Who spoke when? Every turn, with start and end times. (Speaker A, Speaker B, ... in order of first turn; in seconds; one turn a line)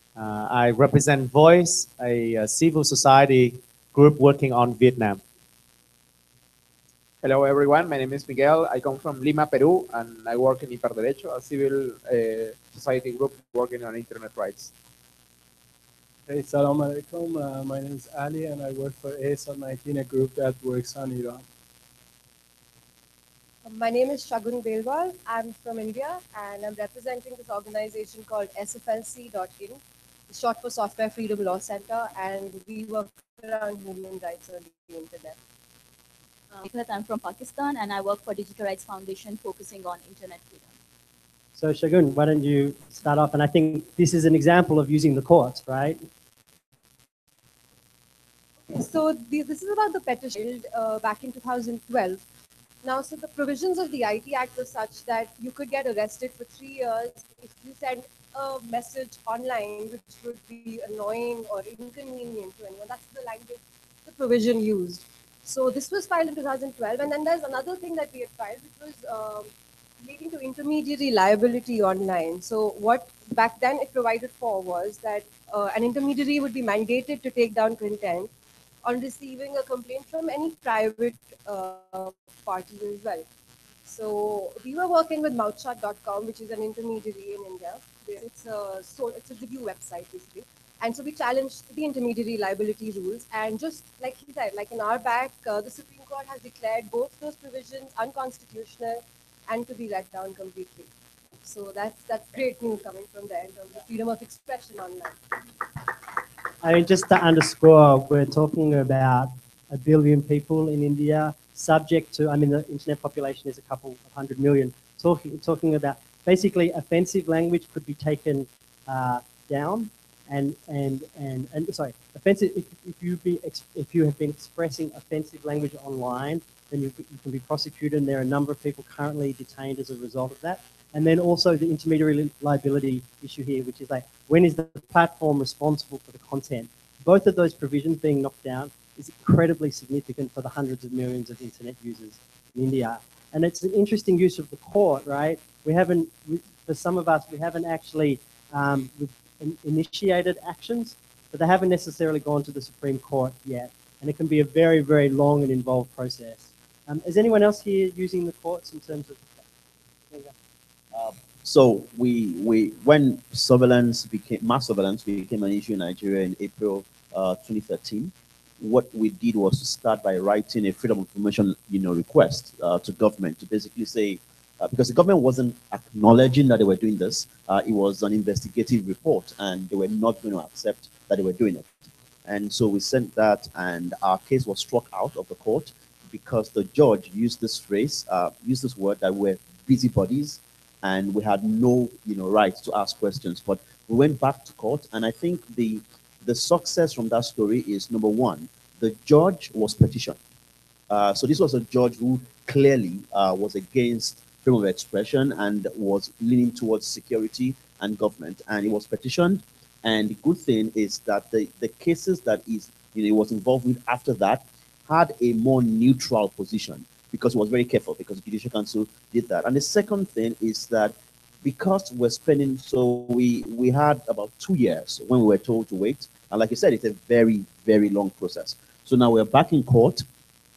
Speaker A: 0.1-5.2
Speaker B: 7.2-14.7
Speaker C: 16.3-21.4
Speaker D: 23.6-35.4
Speaker E: 36.5-40.7
Speaker F: 41.5-46.0
Speaker D: 48.7-52.2
Speaker D: 52.8-78.3
Speaker D: 78.8-83.2
Speaker D: 83.8-100.9
Speaker D: 101.4-105.2
Speaker F: 106.6-159.4
Speaker G: 160.9-181.7
Speaker G: 182.2-200.2
Speaker G: 200.9-230.0